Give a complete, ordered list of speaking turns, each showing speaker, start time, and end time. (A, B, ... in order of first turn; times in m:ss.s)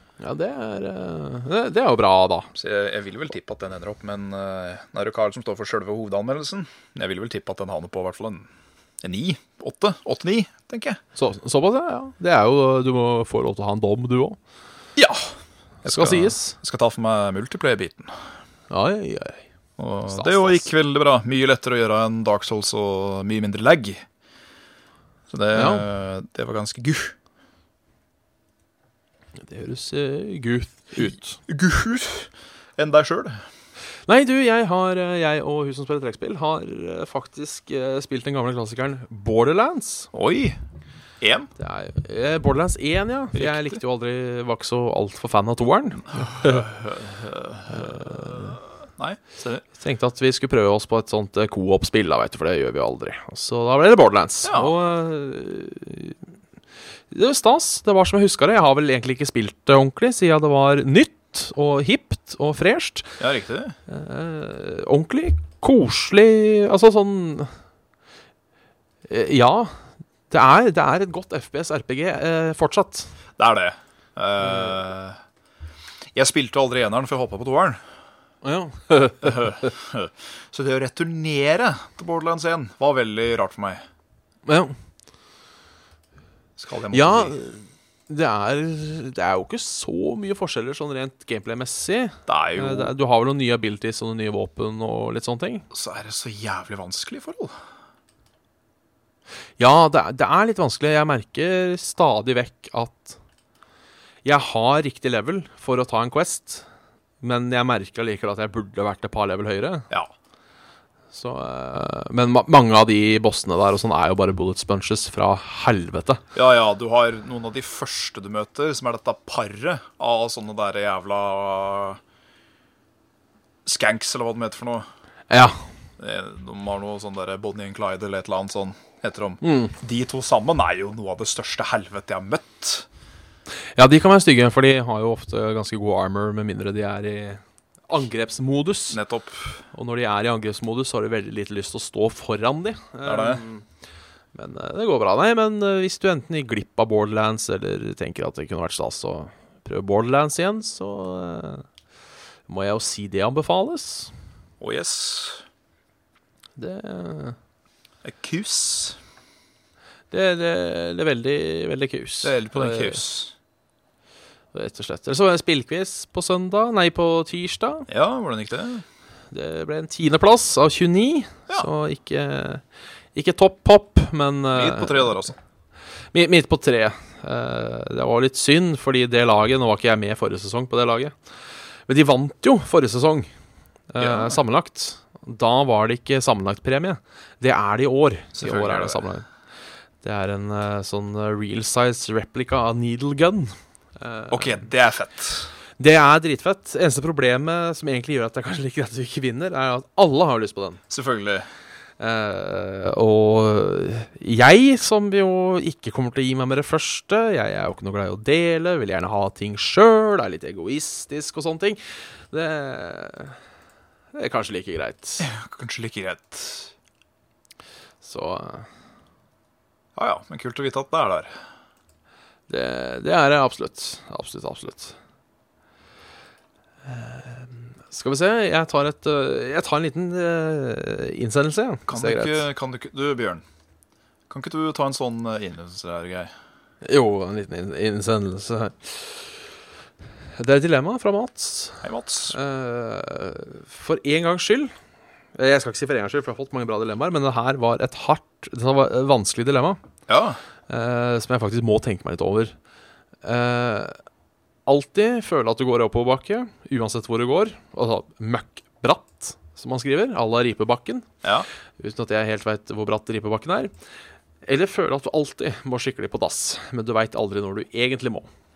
0:00.2-0:02.5 A
0:02.5-0:08.5 B
0:09.0-0:11.0 B
0:11.2-0:14.4 A
0:15.0-0:18.1 B
0:15.8-0:16.6 A
0:18.7-0:19.4 A
0:19.8-0:24.0 B
0:20.1-0:20.7 A
0:25.3-0:27.1 B
0:25.5-0:25.8 A
0:29.4-0:31.4 A
0:31.0-0:33.4 B
0:34.1-0:40.1 A
0:40.1-0:40.6 B
0:41.2-0:41.5 B
0:41.6-0:46.6 A
0:43.3-0:43.8 B
0:46.1-0:49.6 B
0:47.7-0:48.6 A
0:49.7-0:56.2 A
0:54.4-0:54.7 B
0:57.1-1:03.2 A
1:03.2-1:03.8 B
1:03.9-1:07.5 A
1:09.1-1:13.1 A
1:13.4-1:15.2 B
1:14.4-1:14.8 A
1:16.1-1:17.8 B
1:18.4-1:19.7 A
1:19.2-1:23.8 B
1:24.4-1:24.7 A
1:26.6-1:27.4 B
1:26.9-1:35.6 A
1:32.3-1:32.9 B
1:35.7-1:37.5 B
1:39.6-1:43.2 A
1:44.2-1:46.6 A
1:47.2-1:49.9 A
1:51.1-1:56.2 A
1:56.3-2:02.0 B
2:03.6-2:04.8 B
2:05.3-2:05.6 A
2:06.0-2:12.9 B
2:09.4-2:09.7 A
2:13.7-2:19.0 A
2:18.9-2:19.6 B
2:19.7-2:23.6 A
2:23.0-2:23.4 B
2:24.3-2:31.6 A
2:32.5-2:34.1 A
2:34.6-2:35.4 B
2:36.6-2:37.4 A
2:38.0-2:39.0 B
2:40.1-2:43.0 A
2:42.2-2:43.3 B
2:44.5-2:47.9 A
2:47.9-2:48.8 B
2:49.3-2:52.6 A
2:53.1-2:55.2 A
2:54.5-2:55.4 B
2:56.1-3:01.1 A
3:01.9-3:03.3 A
3:03.9-3:09.2 A
3:04.0-3:04.4 B
3:08.3-3:09.1 B
3:10.0-3:14.6 A
3:14.3-3:15.5 B
3:15.8-3:20.8 A
3:20.9-3:21.5 B
3:22.0-3:31.8 A
3:32.3-3:33.4 A
3:34.1-3:35.3 A
3:35.2-3:36.7 B
3:38.0-3:38.7 A
3:40.0-3:41.4 B
3:42.5-3:45.0 A
3:46.8-3:52.4 A
3:51.9-3:53.4 B
3:54.3-3:56.3 B
3:56.8-3:59.4 A
4:00.4-4:04.7 A
4:01.8-4:02.4 B
4:05.3-4:09.8 A
4:10.1-4:10.4 B
4:10.7-4:12.5 A
4:13.2-4:14.0 A
4:14.6-4:21.1 A
4:21.8-4:23.7 A
4:24.4-4:28.3 A